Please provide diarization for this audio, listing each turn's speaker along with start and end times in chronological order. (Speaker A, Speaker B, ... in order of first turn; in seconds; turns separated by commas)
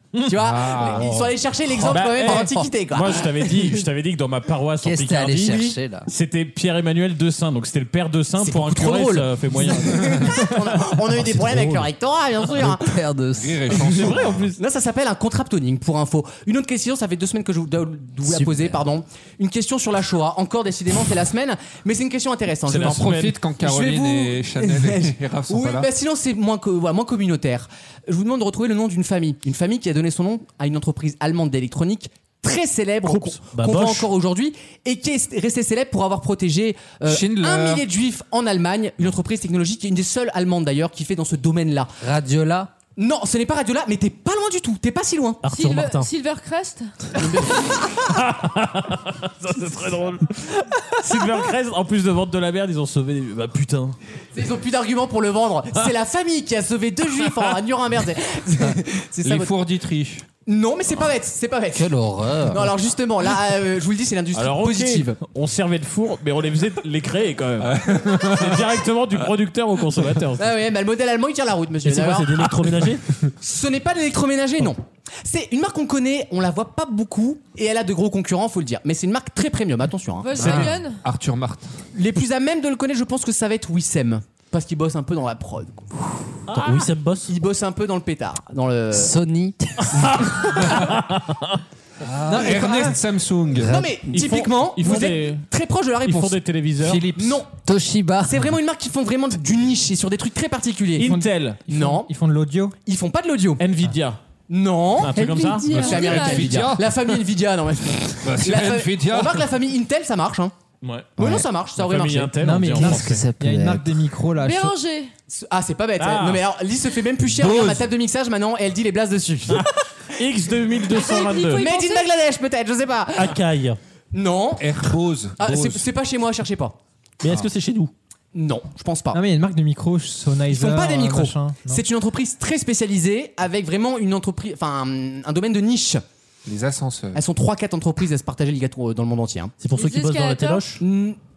Speaker A: 0.1-10.6, Speaker B: 0.2-3.8, Speaker C: 0.4-1.2, Speaker C: 2.1-2.5, Speaker D: 4.8-6.1, Speaker B: 8.4-13.0, Speaker A: 11.3-11.8, Speaker D: 12.5-14.2, Speaker C: 13.3-14.5, Speaker A: 13.8-14.6, Speaker B: 14.5-41.9, Speaker D: 18.2-18.8, Speaker A: 22.7-23.3, Speaker C: 22.8-25.9, Speaker E: 33.0-34.1, Speaker C: 37.0-37.8, Speaker D: 42.0-42.7, Speaker B: 43.0-45.4, Speaker E: 45.4-46.1, Speaker F: 45.5-46.9, Speaker B: 47.1-48.0, Speaker A: 47.9-54.0, Speaker B: 54.3-59.5, Speaker C: 59.2-60.2, Speaker B: 60.5-61.9, Speaker D: 61.7-62.7, Speaker B: 62.5-65.2, Speaker A: 64.3-70.5, Speaker C: 67.6-68.8, Speaker B: 70.4-72.8, Speaker E: 71.8-73.1, Speaker B: 73.4-80.6, Speaker F: 80.2-81.0, Speaker D: 80.4-80.7, Speaker C: 80.5-81.7, Speaker B: 81.9-85.9, Speaker A: 86.5-86.9, Speaker E: 86.5-87.3, Speaker B: 87.3-89.1, Speaker D: 88.9-90.3, Speaker A: 89.9-91.6, Speaker C: 92.0-93.7, Speaker G: 92.3-93.0, Speaker D: 93.5-94.0, Speaker B: 93.6-96.4, Speaker A: 94.1-95.5, Speaker A: 96.0-97.1, Speaker C: 96.8-97.4, Speaker B: 97.1-97.5, Speaker D: 97.6-98.5, Speaker B: 98.2-101.1, Speaker A: 101.0-101.6, Speaker G: 101.0-102.8, Speaker B: 101.7-102.1, Speaker B: 102.8-103.6, Speaker A: 103.6-104.2, Speaker B: 104.5-110.5, Speaker A: 105.0-105.7, Speaker F: 105.4-106.6, Speaker C: 105.7-107.2, Speaker C: 108.2-109.5, Speaker A: 110.8-111.2, Speaker D: 111.2-111.4, Speaker B: 111.2-112.4, Speaker A: 111.8-113.2, Speaker G: 112.4-114.8, Speaker D: 112.7-114.0, Speaker F: 114.3-115.1, Speaker B: 115.3-119.8, Speaker A: 116.0-116.4, Speaker C: 117.2-117.9, Speaker A: 119.5-121.7, Speaker F: 120.9-122.1, Speaker B: 121.6-123.4, Speaker E: 123.2-123.8, Speaker B: 124.1-124.7, Speaker C: 124.6-125.8, Speaker B: 125.4-126.8, Speaker E: 127.2-127.9, Speaker B: 128.3-129.2, Speaker G: 129.1-131.8, Speaker B: 130.5-136.0, Speaker C: 136.5-137.2, Speaker B: 137.1-139.5, Speaker E: 139.6-140.8, Speaker F: 139.8-140.7, Speaker B: 140.8-141.2